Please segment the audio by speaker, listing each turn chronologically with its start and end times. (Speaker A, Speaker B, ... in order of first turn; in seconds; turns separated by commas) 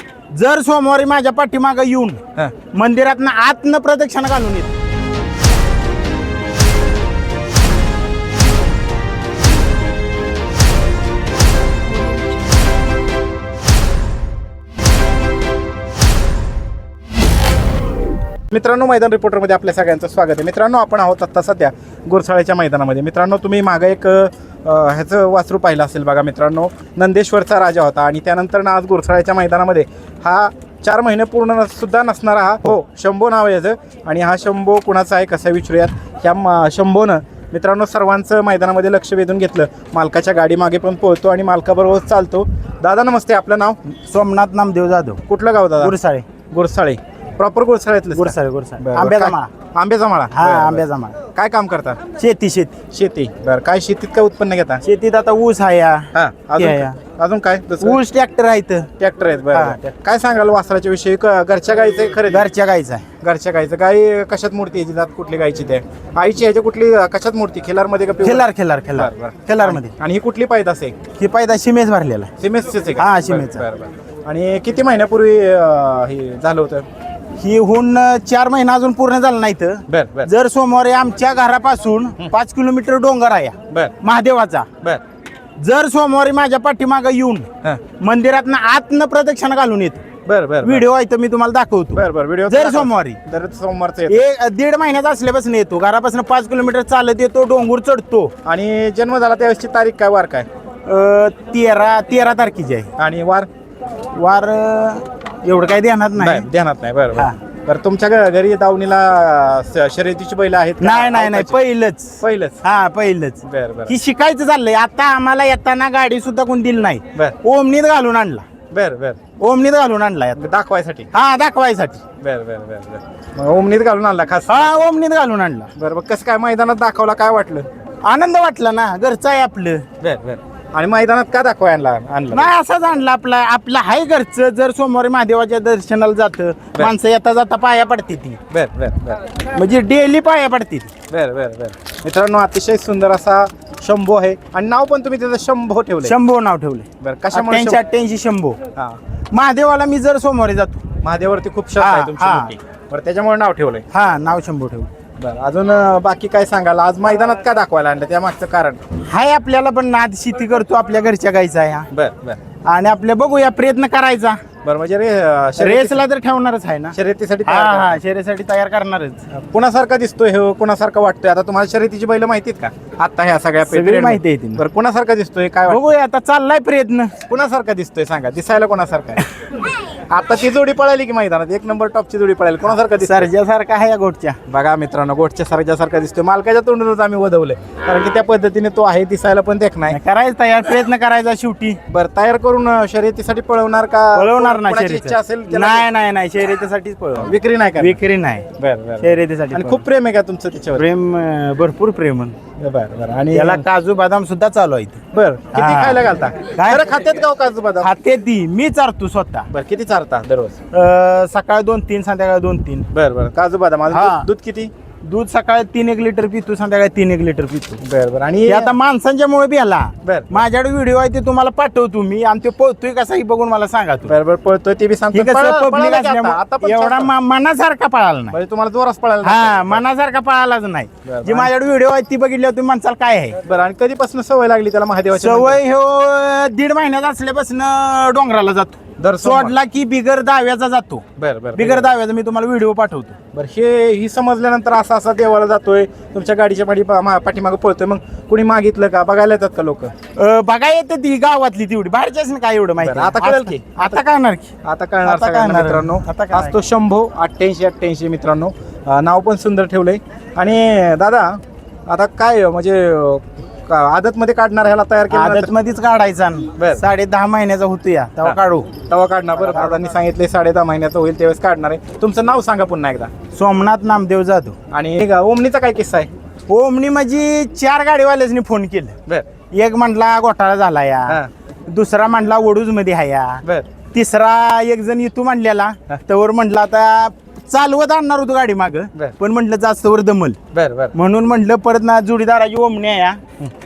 Speaker A: 0.3-4.7, Speaker B: 18.5-43.8, Speaker A: 43.9-45.2, Speaker B: 45.3-46.0, Speaker A: 45.8-46.2, Speaker B: 46.5-52.0, Speaker A: 48.1-49.5, Speaker A: 50.3-51.2, Speaker A: 52.1-52.8, Speaker B: 52.9-54.8, Speaker A: 54.8-57.0, Speaker B: 56.1-58.0, Speaker A: 57.8-58.9, Speaker B: 59.0-62.5, Speaker A: 59.5-59.9, Speaker A: 62.3-63.0, Speaker B: 63.2-71.0, Speaker A: 68.2-69.9, Speaker A: 71.1-72.3, Speaker B: 72.4-76.8, Speaker A: 73.0-73.7, Speaker A: 77.4-84.7, Speaker B: 79.9-80.3, Speaker A: 85.6-90.0, Speaker B: 90.2-90.8, Speaker A: 90.6-93.2, Speaker B: 92.0-94.2, Speaker A: 94.1-98.3, Speaker B: 98.4-100.5, Speaker A: 100.8-102.9, Speaker B: 103.0-103.5, Speaker A: 104.1-106.5, Speaker B: 106.2-111.6, Speaker A: 110.8-118.4, Speaker B: 112.2-112.6, Speaker B: 113.4-114.0, Speaker B: 118.7-119.2, Speaker A: 119.4-120.4, Speaker B: 120.3-121.1, Speaker A: 121.1-122.0, Speaker B: 122.2-124.8, Speaker A: 124.5-125.7, Speaker B: 125.8-127.7, Speaker A: 128.0-129.8, Speaker B: 130.0-132.5, Speaker A: 132.3-138.4, Speaker B: 138.5-139.2, Speaker A: 139.4-140.9, Speaker B: 141.1-146.2, Speaker A: 146.0-148.6, Speaker B: 147.0-147.8, Speaker A: 149.3-150.8, Speaker B: 151.0-153.8, Speaker A: 151.8-152.5, Speaker A: 153.9-154.9, Speaker B: 155.2-158.8, Speaker A: 159.0-161.9, Speaker B: 161.9-162.4, Speaker A: 162.6-164.4, Speaker B: 164.6-166.0, Speaker A: 165.6-169.2, Speaker B: 166.9-168.0, Speaker B: 169.3-175.9, Speaker A: 173.7-174.6, Speaker A: 175.7-177.2, Speaker B: 177.3-183.3, Speaker A: 183.0-184.4, Speaker B: 184.5-190.0, Speaker A: 189.9-191.8, Speaker B: 191.9-195.9, Speaker A: 194.1-198.5, Speaker B: 197.2-198.0, Speaker B: 198.6-200.8, Speaker A: 199.0-199.8, Speaker A: 200.7-202.4, Speaker B: 202.6-203.6, Speaker A: 203.3-205.0, Speaker B: 205.1-207.9, Speaker A: 205.5-206.0, Speaker A: 206.5-206.9, Speaker A: 207.8-209.5, Speaker B: 209.5-210.6, Speaker A: 210.7-212.9, Speaker B: 212.9-214.7, Speaker A: 213.9-214.3, Speaker A: 215.1-217.8, Speaker B: 217.8-218.7, Speaker A: 218.4-224.1, Speaker B: 220.0-220.4, Speaker B: 224.1-227.1, Speaker A: 225.1-228.3, Speaker B: 228.3-229.8, Speaker A: 229.2-233.4, Speaker B: 231.0-231.5, Speaker B: 233.4-235.6, Speaker A: 235.1-243.2, Speaker B: 239.0-239.6, Speaker B: 241.2-241.9, Speaker B: 243.3-249.9, Speaker A: 250.1-254.5, Speaker B: 252.8-254.0, Speaker B: 254.6-265.5, Speaker A: 255.0-256.5, Speaker A: 265.1-268.7, Speaker B: 266.6-266.8, Speaker B: 268.2-273.1, Speaker A: 273.3-274.6, Speaker B: 274.7-276.1, Speaker A: 276.5-279.0, Speaker A: 279.5-283.4, Speaker A: 283.9-290.4, Speaker B: 290.5-290.9, Speaker A: 290.9-293.2